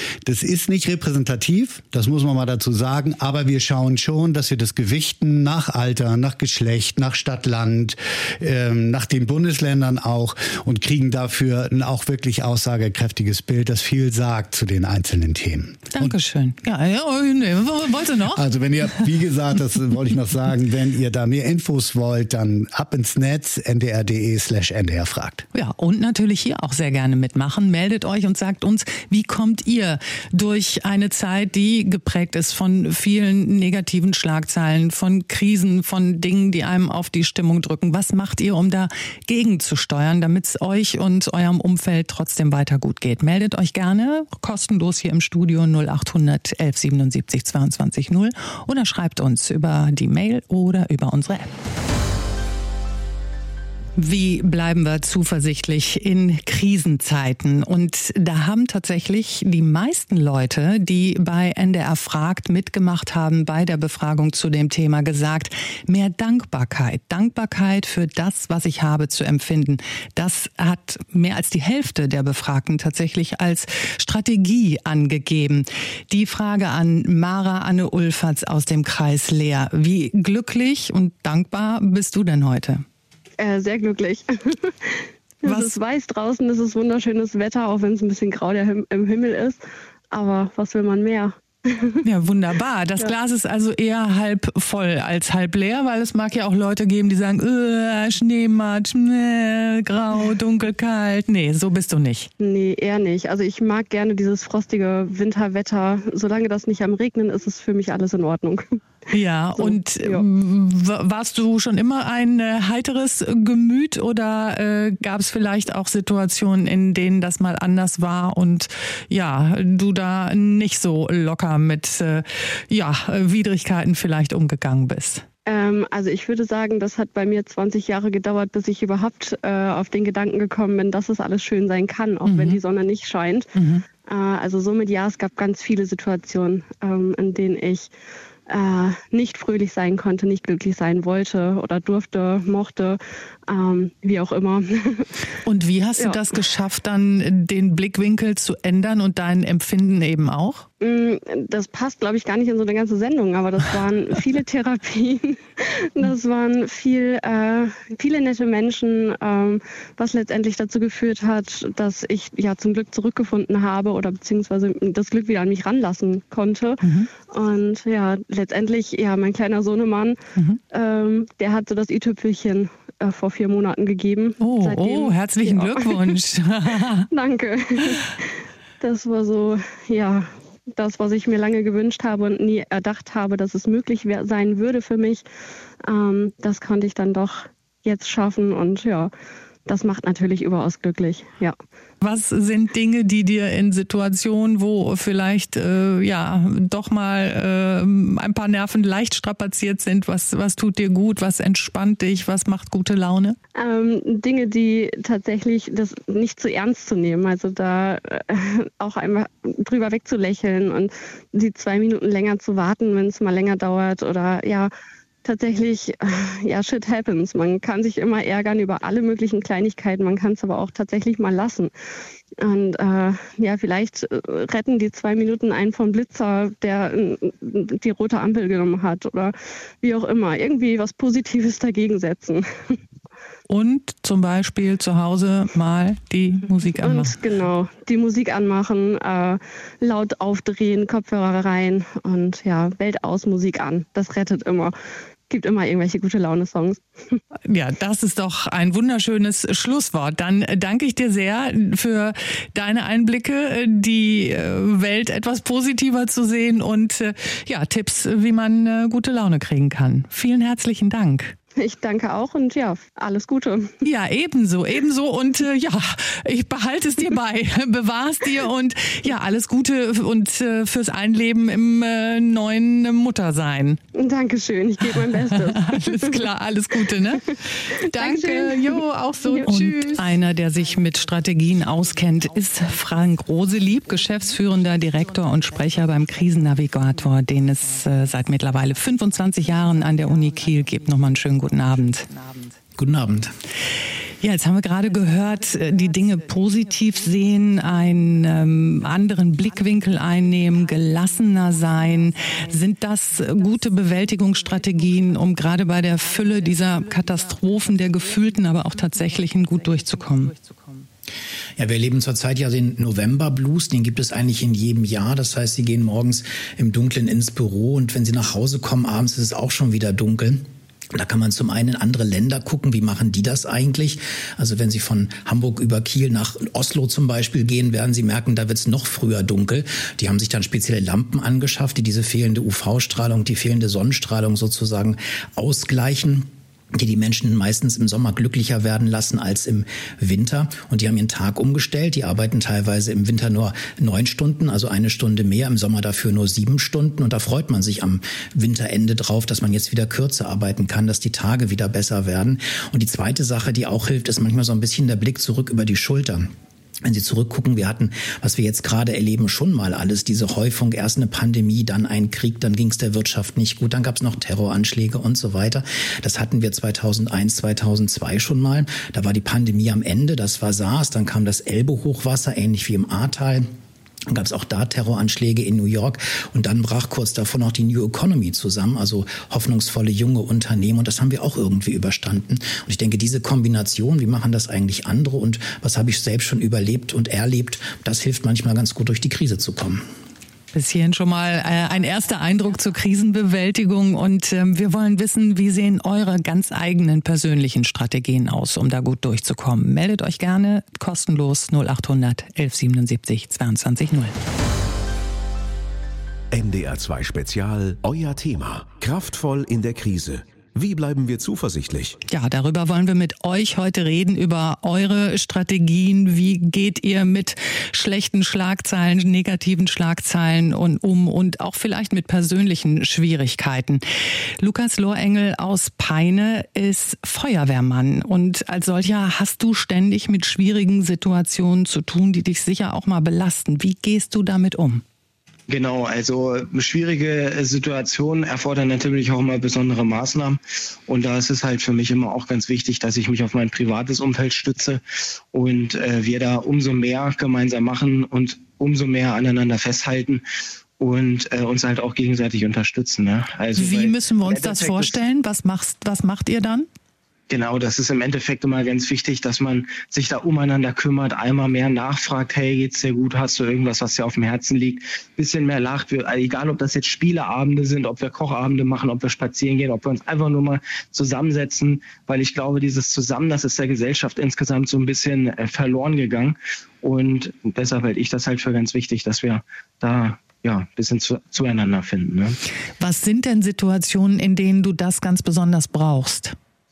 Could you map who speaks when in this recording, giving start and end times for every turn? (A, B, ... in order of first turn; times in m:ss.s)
0:00.2-0:16.1 A
0:15.9-0:18.4 B
0:18.3-0:25.4 A
0:25.5-0:51.5 B
0:54.0-1:22.8 B
1:23.4-1:32.0 C
1:25.4-1:25.7 B
1:32.0-1:42.3 B
1:42.4-1:48.8 C
1:49.1-2:05.2 B
1:49.6-1:50.2 C
2:05.4-2:13.5 C
2:12.2-2:12.6 B
2:13.5-2:13.8 B
2:14.0-2:17.9 C
2:18.5-2:25.1 C
2:25.4-2:30.6 B
2:30.8-2:50.2 C
2:46.8-2:47.1 B
2:50.7-2:56.2 C
2:54.4-2:57.1 B
2:57.1-2:58.3 C
2:58.8-3:05.2 C
3:05.8-3:09.1 C
3:09.6-3:11.6 C
3:12.0-3:23.4 B
3:23.5-3:34.7 C
3:35.2-3:41.7 C
3:42.4-3:52.8 C
3:53.5-3:57.2 B
3:56.8-4:04.7 C
4:05.3-4:07.2 C
4:07.5-4:21.3 B
4:21.6-4:23.8 C
4:23.8-4:33.8 B
4:33.9-4:36.2 C
4:34.9-4:52.4 B
4:37.8-4:39.9 C
4:52.8-4:53.3 D
4:54.2-5:10.5 B
5:11.6-5:56.3 D
5:56.8-6:13.5 D
6:14.1-6:29.8 D
6:30.5-6:44.2 B
6:46.3-6:52.0 E
6:52.1-7:03.8 B
7:04.4-7:14.8 B
7:15.5-7:24.8 F
7:25.3-7:30.2 F
7:30.8-7:34.9 F
7:33.6-7:36.7 B
7:37.3-8:02.4 F
8:02.8-8:06.3 B